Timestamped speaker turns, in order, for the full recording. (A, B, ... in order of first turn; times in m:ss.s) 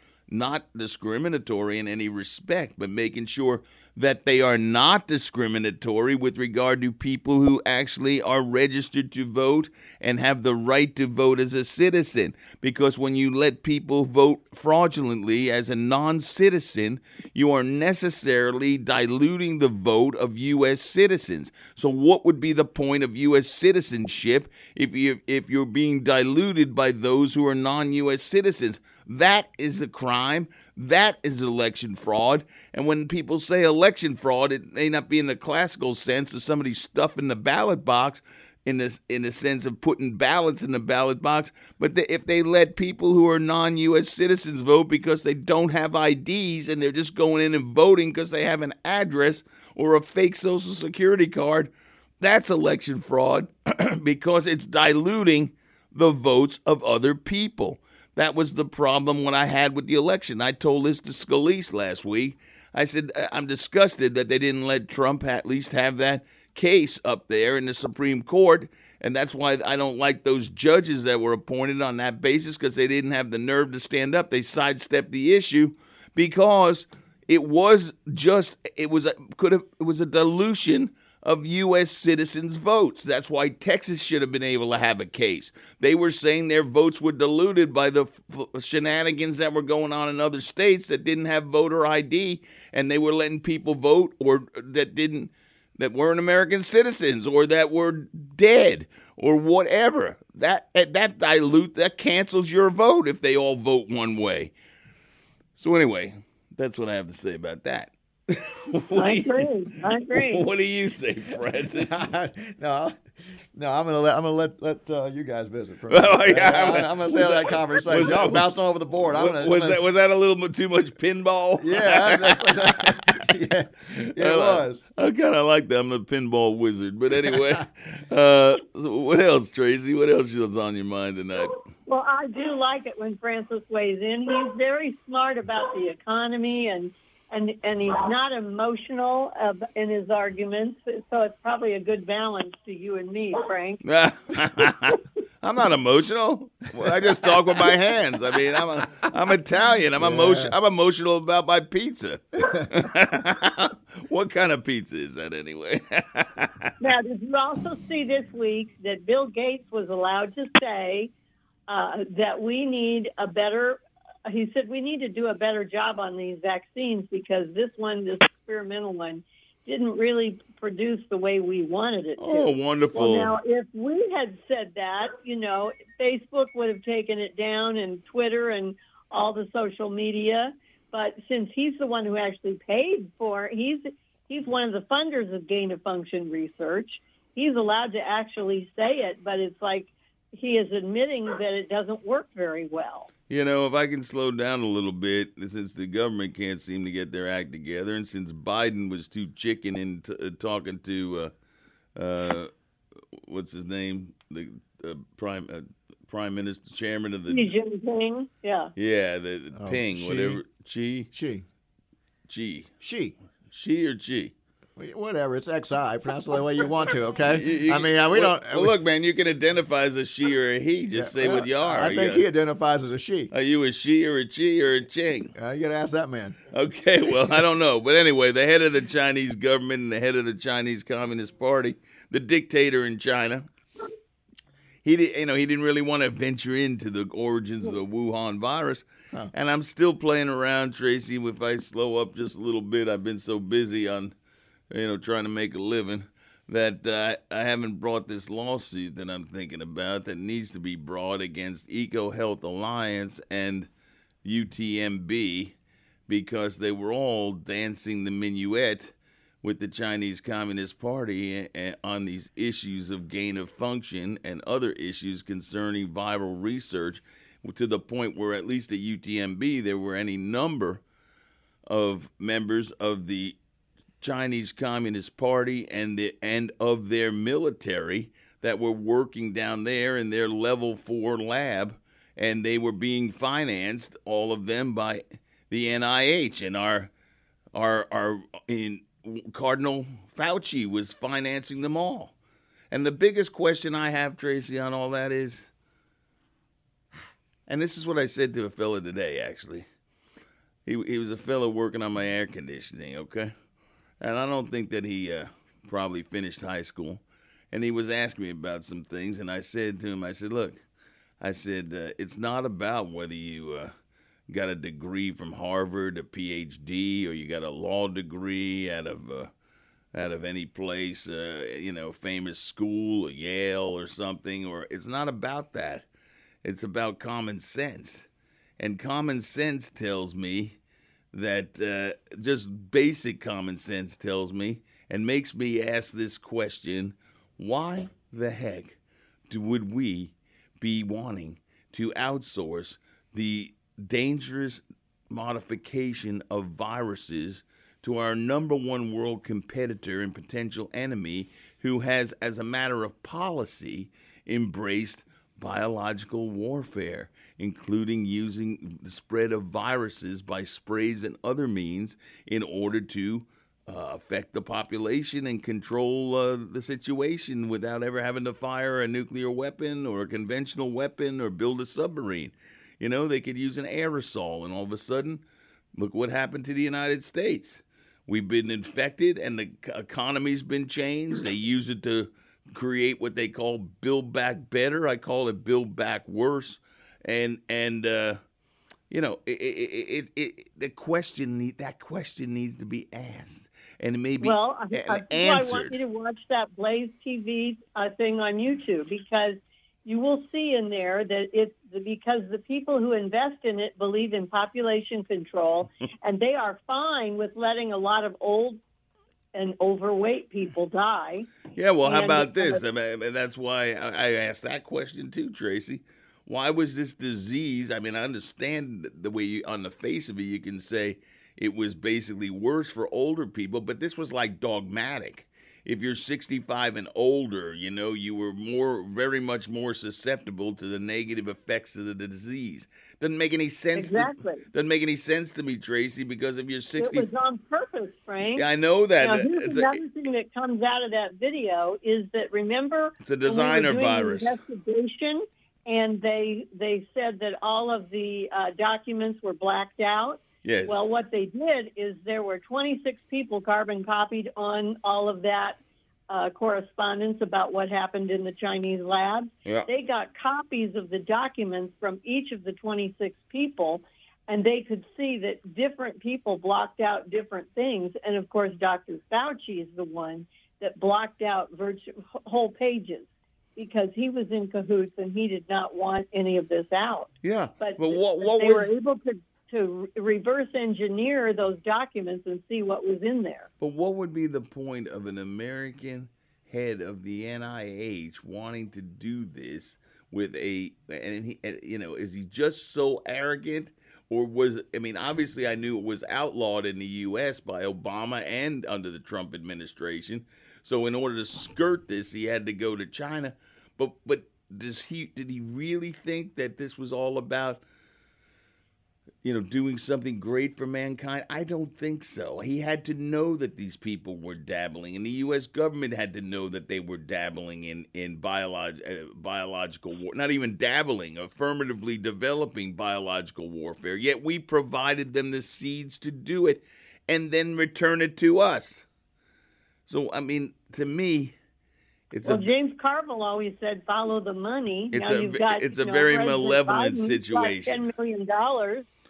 0:00.3-1:44.5 A
1:45.6-1:49.5 A
1:48.9-1:50.4 B
1:50.1-1:52.0 A
1:51.8-1:53.0 C
1:53.5-1:59.8 C
1:55.9-2:03.0 A
2:01.6-2:04.8 C
2:04.2-2:11.6 A
2:11.8-2:23.8 B
2:23.8-2:36.7 A
2:26.8-2:27.7 C
2:30.0-2:30.5 C
2:36.8-2:41.1 B
2:41.7-3:13.1 B
2:52.2-2:53.4 A
3:13.3-3:21.3 A
3:21.9-3:22.5 A
3:23.1-3:27.4 A
3:27.3-3:28.7 B
3:28.7-3:31.1 A
3:29.5-3:30.4 C
3:31.1-3:31.4 C
3:32.3-3:32.7 A
3:32.8-3:33.1 C
3:33.5-3:34.3 A
3:34.8-3:38.8 C
3:37.2-3:42.3 A
3:40.9-3:43.3 C
3:43.3-3:45.3 A
3:45.3-3:46.4 C
3:46.5-3:53.5 A
3:54.8-4:04.1 A
4:04.7-4:13.7 A
4:14.2-4:15.5 A
4:16.1-4:30.8 A
4:31.7-4:33.4 A
4:34.0-4:46.9 A
4:47.5-4:52.1 A
4:52.7-4:55.5 A
4:57.5-4:59.6 A
5:00.6-5:03.3 A
5:04.0-5:10.6 A
5:11.2-5:13.7 A
5:14.3-5:19.3 A
5:19.9-5:25.9 A
5:26.4-5:30.6 A
5:31.1-5:38.8 A
5:39.3-6:15.2 A
6:15.8-6:28.2 A
6:28.9-6:35.8 A
6:34.2-6:48.6 B
6:49.3-6:51.3 B
6:51.5-7:17.1 A
6:51.8-6:52.6 B
7:13.8-7:14.4 B
7:16.8-7:18.5 B
7:18.4-7:19.8 A
7:19.0-7:35.6 B
7:23.0-7:24.4 A
7:30.4-7:30.8 A
7:36.1-8:03.5 B
7:57.2-7:58.7 A
8:03.6-8:27.6 A
8:29.2-8:48.8 A
8:49.9-8:51.3 A
8:52.1-8:52.5 A
8:52.2-8:58.9 B
8:54.9-8:57.8 A